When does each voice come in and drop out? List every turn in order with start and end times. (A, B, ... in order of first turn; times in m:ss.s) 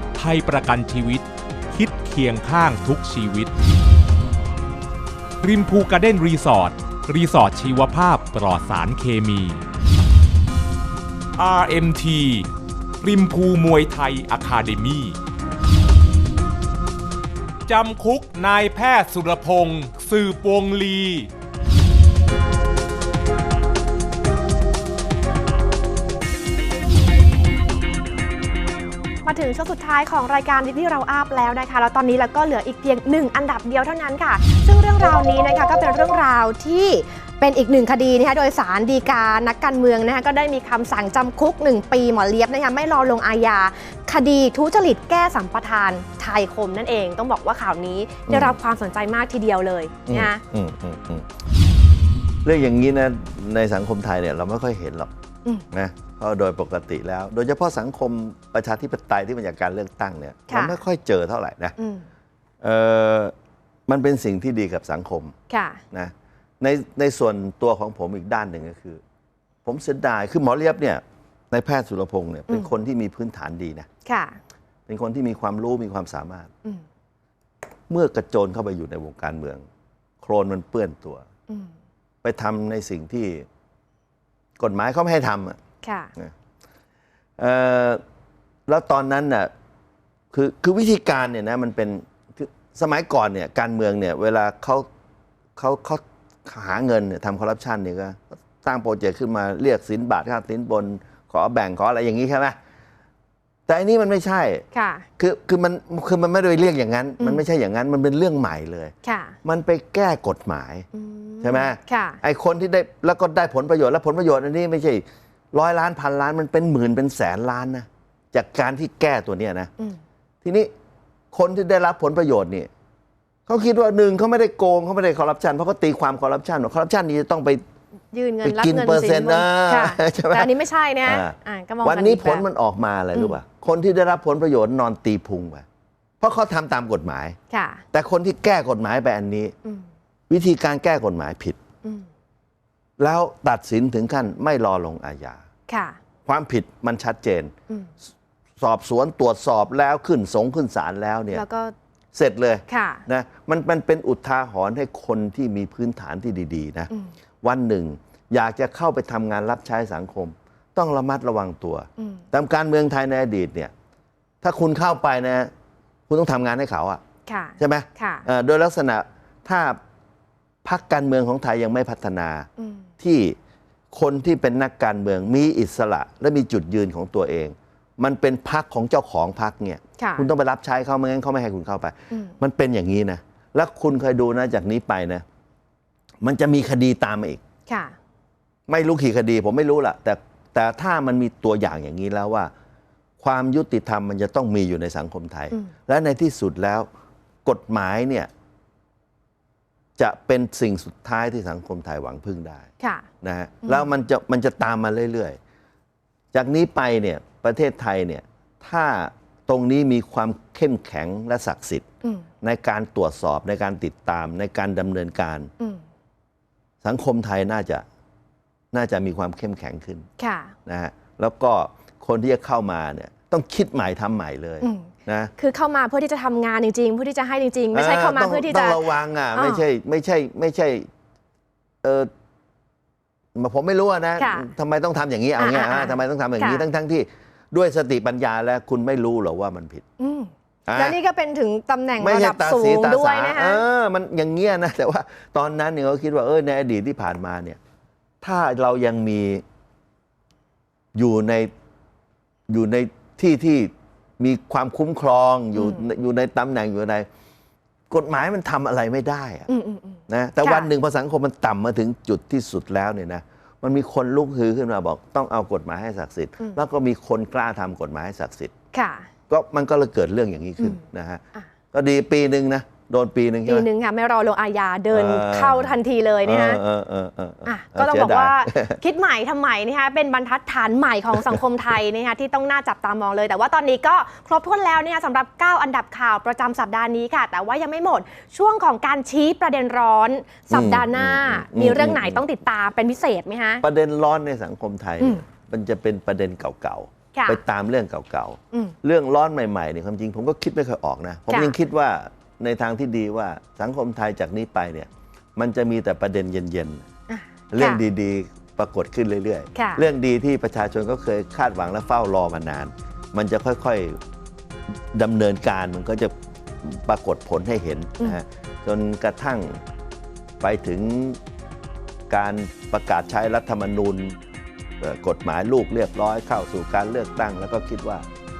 0:00.2-0:03.5 A
0:05.4-0:09.6 A
0:11.4-0:12.5 A
0:13.0-0:15.2 A
0:17.7-0:21.3 A
0:29.2-0:50.4 B
0:48.3-0:48.6 C
0:50.1-0:51.3 C
0:52.4-0:55.1 C
0:55.7-1:01.8 C
1:00.5-1:00.8 B
1:01.8-1:02.1 B
1:02.6-1:03.3 C
1:03.9-1:05.4 C
1:05.5-1:05.8 B
1:05.9-1:09.0 C
1:09.6-1:13.9 C
1:14.0-1:14.4 B
1:14.9-1:16.5 C
1:17.9-1:19.6 C
1:20.2-1:21.3 C
1:22.2-1:23.5 C
1:24.6-1:25.6 C
1:25.8-1:26.1 B
1:27.4-1:28.0 C
1:28.7-1:29.5 C
1:30.3-1:34.9 C
1:35.6-1:42.6 C
1:43.7-1:44.6 C
1:44.7-1:45.1 B
1:45.2-1:48.9 C
1:49.0-1:49.4 B
1:49.4-1:50.9 C
1:50.9-1:52.2 B
1:51.4-1:59.7 C
2:00.4-2:00.7 C
2:01.3-2:02.7 C
2:03.5-2:07.6 C
2:08.1-2:12.5 B
2:08.4-2:10.5 C
2:11.0-2:15.6 C
2:16.2-2:17.4 C
2:17.5-2:17.8 B
2:17.9-2:19.6 C
2:20.3-2:21.6 C
2:23.0-2:25.4 C
2:25.7-2:26.0 B
2:26.3-2:27.5 C
2:28.6-2:31.4 C
2:31.3-2:31.7 B
2:32.1-2:36.9 C
2:32.7-2:33.0 B
2:37.4-2:43.7 C
2:44.4-2:45.5 C
2:46.1-2:47.0 C
2:47.3-2:48.3 B
2:47.6-2:49.8 C
2:50.6-2:52.5 C
2:52.6-2:52.8 B
2:53.0-2:53.4 C
2:53.9-3:05.2 C
3:00.0-3:00.3 B
3:06.2-3:07.4 C
3:07.7-3:08.0 B
3:08.7-3:12.5 C
3:13.2-3:16.9 C
3:17.4-3:18.3 C
3:20.0-3:22.7 C
3:22.8-3:23.1 B
3:23.2-3:25.4 C
3:26.3-3:31.8 C
3:32.4-3:35.5 C
3:36.8-3:37.8 C
3:38.7-3:40.1 C
3:40.2-3:40.5 B
3:40.7-3:45.3 C
3:44.6-3:49.6 B
3:47.7-3:50.9 C
3:51.8-3:52.1 C
3:53.4-3:59.8 C
3:54.2-3:54.5 B
3:55.4-3:56.6 B
4:00.0-4:03.6 B
4:00.7-4:01.0 C
4:02.0-4:07.6 C
4:08.2-4:09.4 C
4:11.0-4:11.5 C
4:12.5-4:17.1 C
4:17.9-4:19.5 C
4:19.5-4:20.7 B
4:20.1-4:28.5 C
4:28.7-4:29.1 B
4:29.3-4:31.2 C
4:31.7-4:33.7 C
4:33.5-4:36.6 B
4:34.9-4:38.8 C
4:37.4-4:53.6 B
4:50.5-4:52.2 C
4:53.6-5:06.9 C
4:57.1-4:57.4 B
5:01.3-5:01.6 B
5:07.1-5:07.8 B
5:07.5-5:14.0 C
5:09.6-5:09.8 B
5:14.9-5:19.6 C
5:20.4-5:21.2 C
5:22.1-5:24.2 C
5:24.8-5:28.1 C